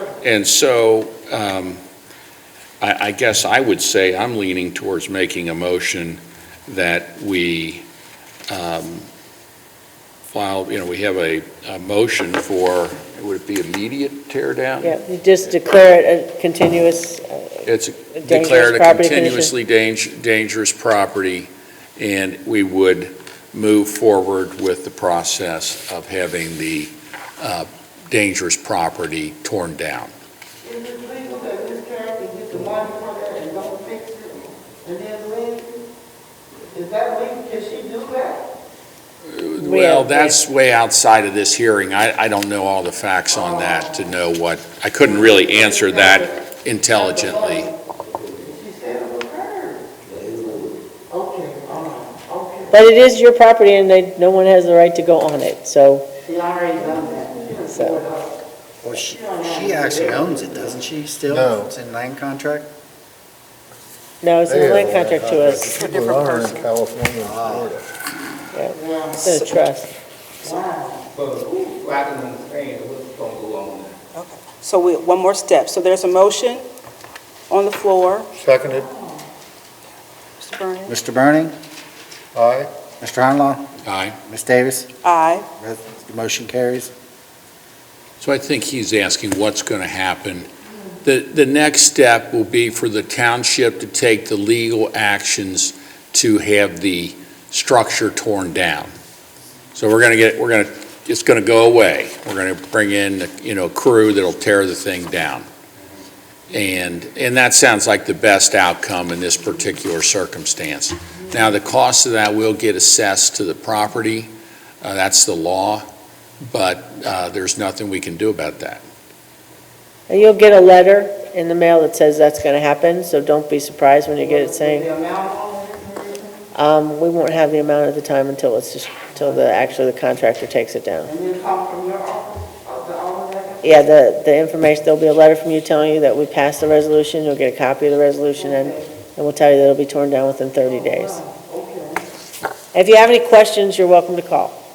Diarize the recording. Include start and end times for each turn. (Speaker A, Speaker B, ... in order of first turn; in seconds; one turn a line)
Speaker A: 0.2-1.8
Speaker A: 2.8-7.8
Speaker A: 8.5-9.1
Speaker A: 10.3-14.9
Speaker B: 14.8-19.5
Speaker A: 17.6-30.1
Speaker C: 30.6-35.7
Speaker C: 36.7-38.4
Speaker A: 39.3-47.7
Speaker B: 39.6-40.4
Speaker C: 48.4-49.8
Speaker C: 51.1-52.7
Speaker B: 52.7-56.1
Speaker C: 56.2-58.3
Speaker B: 57.6-58.0
Speaker D: 58.8-62.7
Speaker E: 61.3-61.7
Speaker B: 64.2-65.6
Speaker E: 64.5-67.8
Speaker D: 65.1-65.7
Speaker F: 65.5-66.7
Speaker D: 67.2-67.7
Speaker B: 68.5-69.9
Speaker F: 69.2-69.5
Speaker C: 70.4-71.0
Speaker G: 71.3-73.9
Speaker F: 74.1-76.7
Speaker F: 77.5-78.3
Speaker E: 78.4-78.9
Speaker F: 80.4-80.9
Speaker D: 80.9-81.5
Speaker E: 82.3-82.7
Speaker D: 83.0-83.7
Speaker A: 83.8-84.2
Speaker D: 84.2-84.9
Speaker F: 85.0-85.5
Speaker D: 85.6-86.9
Speaker A: 88.2-90.5
Speaker A: 91.0-98.9
Speaker A: 99.7-105.5
Speaker A: 106.5-114.3
Speaker A: 114.8-115.8
Speaker A: 116.4-118.8
Speaker B: 120.1-124.9
Speaker C: 124.3-126.3
Speaker B: 126.5-131.1
Speaker C: 131.1-133.7
Speaker B: 133.6-141.2
Speaker C: 140.9-142.0
Speaker B: 142.7-144.6